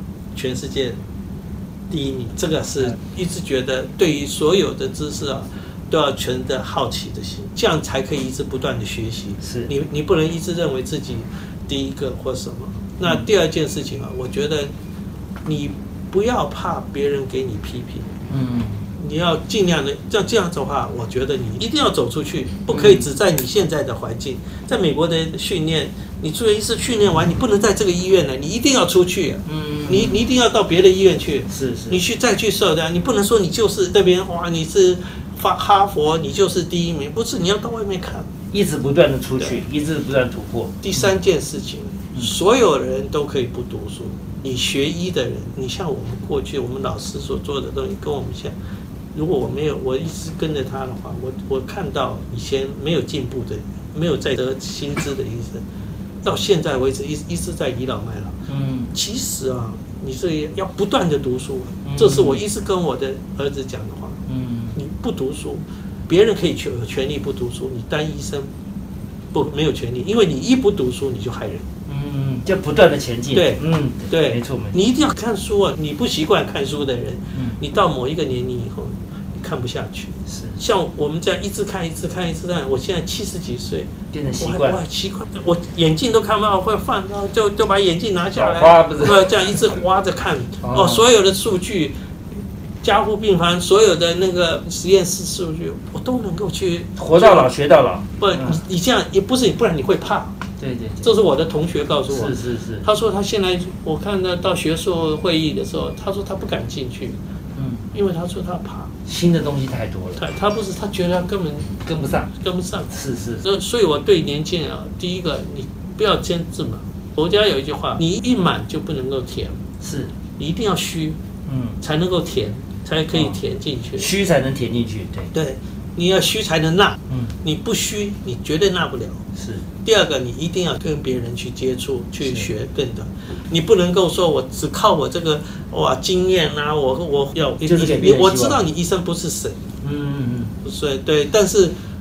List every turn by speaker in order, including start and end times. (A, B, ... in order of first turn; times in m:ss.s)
0:00.3-0:01.0 A
0:01.9-0:14.7 A
0:09.4-0:09.7 B
0:15.4-0:18.1 A
0:18.3-0:18.9 B
0:19.0-0:38.3 A
0:22.7-0:23.1 B
0:29.5-0:30.3 B
0:31.5-0:32.0 B
0:38.5-0:41.1 B
0:40.8-0:48.6 A
0:49.1-0:55.6 A
0:56.2-1:04.2 A
0:58.5-0:58.9 B
1:01.8-1:02.4 B
1:04.3-1:04.8 B
1:04.7-1:08.5 A
1:09.3-1:11.7 A
1:11.9-1:14.8 B
1:13.3-1:31.9 A
1:17.3-1:17.6 B
1:20.3-1:20.6 B
1:24.1-1:24.8 B
1:28.3-1:29.6 B
1:30.6-1:31.0 B
1:32.8-1:37.5 A
1:37.0-1:38.6 B
1:38.2-1:40.4 A
1:40.6-1:41.1 B
1:41.0-1:47.2 A
1:42.1-1:42.8 B
1:47.5-1:47.8 B
1:47.9-1:48.9 A
1:49.0-1:50.2 B
1:50.2-1:59.6 A
1:51.8-1:52.3 B
1:52.9-1:53.5 B
1:59.8-2:00.1 B
2:00.4-2:01.2 A
2:01.4-2:01.8 B
2:01.8-2:04.1 A
2:03.1-2:03.4 B
2:04.0-2:05.3 B
2:05.3-2:09.2 A
2:07.1-2:07.3 B
2:09.3-2:09.6 B
2:09.8-2:19.6 A
2:12.2-2:12.5 B
2:17.6-2:18.7 B
2:19.8-2:20.5 B
2:20.6-2:21.8 A